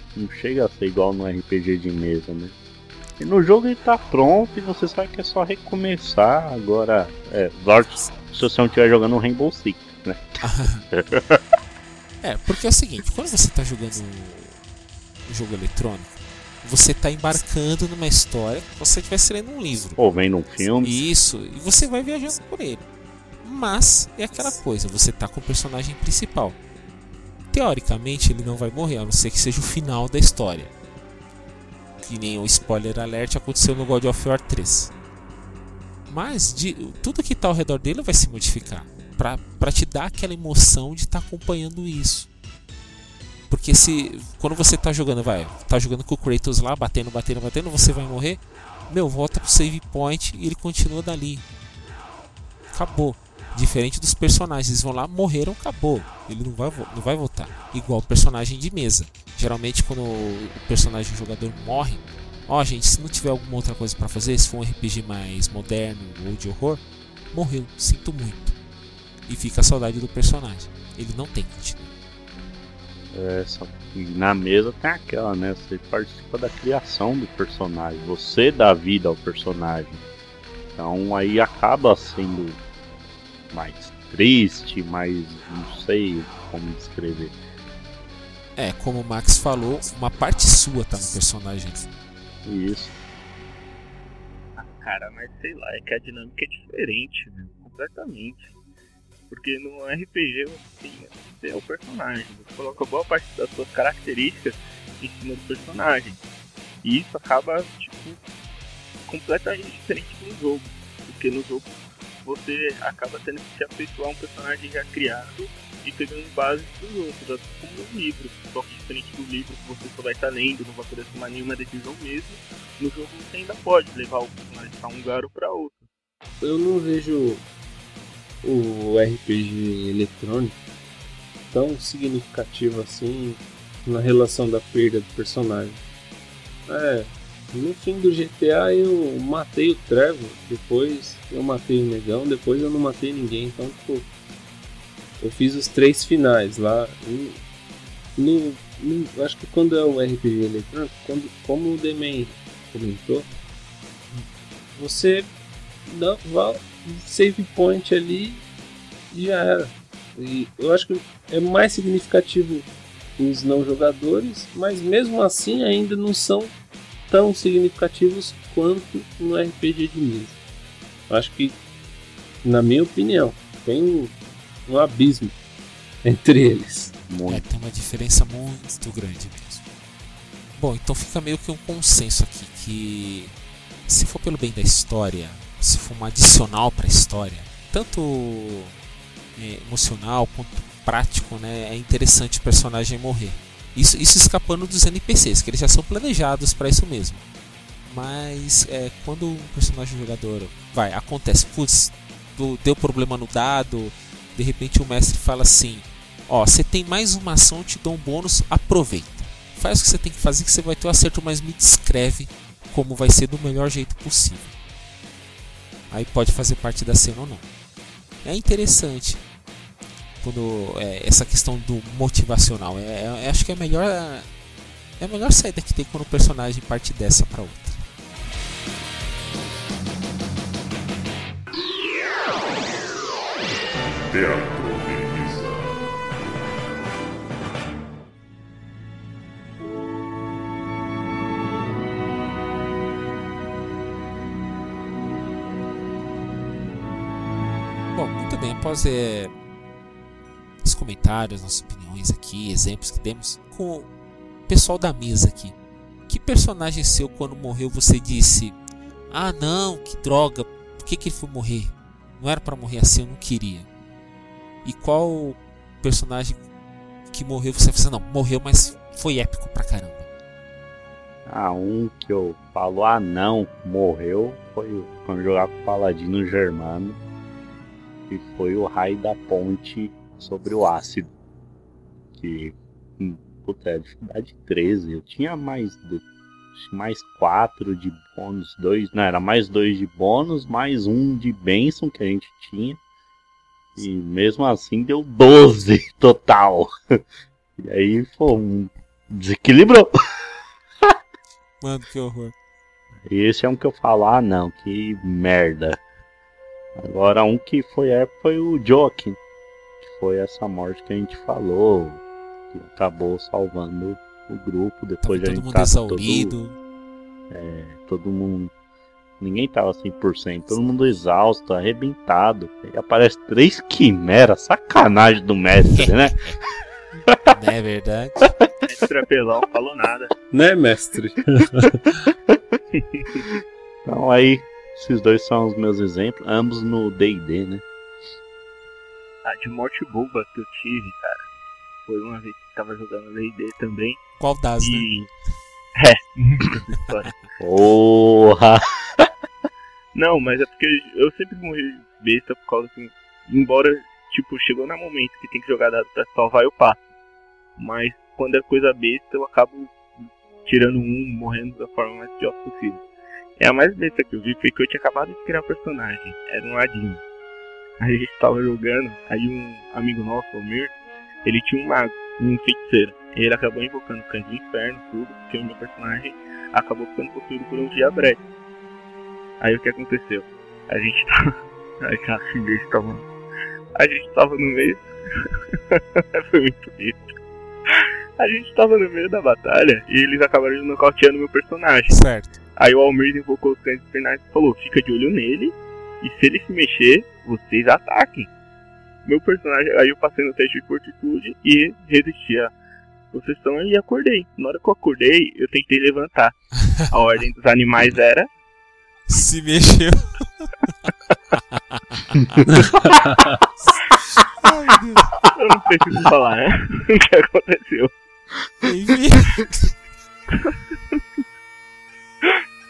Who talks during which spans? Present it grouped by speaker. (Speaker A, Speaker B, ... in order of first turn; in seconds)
Speaker A: 0.1-2.5, 3.2-11.4, 20.0-21.0, 73.1-80.1, 80.8-82.6, 83.5-87.3, 92.4-92.9, 177.1-177.4, 271.2-277.0, 278.1-281.1, 282.2-292.8, 293.8-296.7, 297.6-301.0, 303.1-305.8, 306.8-309.2, 309.8-312.0, 312.5-316.4, 317.3-318.5, 319.2-326.3, 332.3-332.6, 333.8-337.6, 347.4-349.1
Speaker B: 10.4-10.8, 12.2-14.6, 15.3-20.0, 20.8-22.9, 23.4-26.6, 27.5-30.7, 32.0-34.9, 36.1-42.3, 43.5-51.4, 52.7-68.5, 69.3-71.9, 88.5-91.9, 177.3-179.6, 180.6-183.3, 183.9-188.7, 189.3-197.2, 197.8-214.5, 215.9-217.4, 218.2-219.2, 220.2-224.3, 225.0-227.8, 247.9-249.3, 250.6-253.9, 254.5-255.5, 256.1-258.6, 259.1-263.7, 264.6-266.4, 267.1-270.1, 301.6-302.3, 315.0-316.6, 325.7-326.4, 327.3-328.3, 344.2-344.9, 391.9-392.4, 409.1-412.4, 413.9-415.2, 418.6-419.8
Speaker C: 94.5-98.5, 99.3-106.2, 106.8-108.2, 109.1-125.9, 328.6-330.1, 332.7-333.2, 339.2-341.2, 341.9-344.0, 344.6-345.1, 345.7-347.1, 349.9-356.9, 357.6-362.8, 363.4-367.0, 367.8-370.7, 371.2-378.2, 379.4-383.1, 383.8-387.1, 387.7-392.0, 392.6-398.3, 399.0-402.5, 403.1-408.3, 415.3-417.9, 420.3-421.0
Speaker D: 126.4-127.4, 128.4-130.6, 131.5-135.8, 136.7-144.1, 145.2-147.4, 148.2-153.2, 154.7-155.3, 155.8-158.4, 159.1-162.7, 163.2-166.5, 167.1-170.4, 171.1-171.6, 172.4-174.1, 174.7-175.3, 176.0-176.9, 330.3-331.8, 412.5-413.4
Speaker E: 233.9-235.9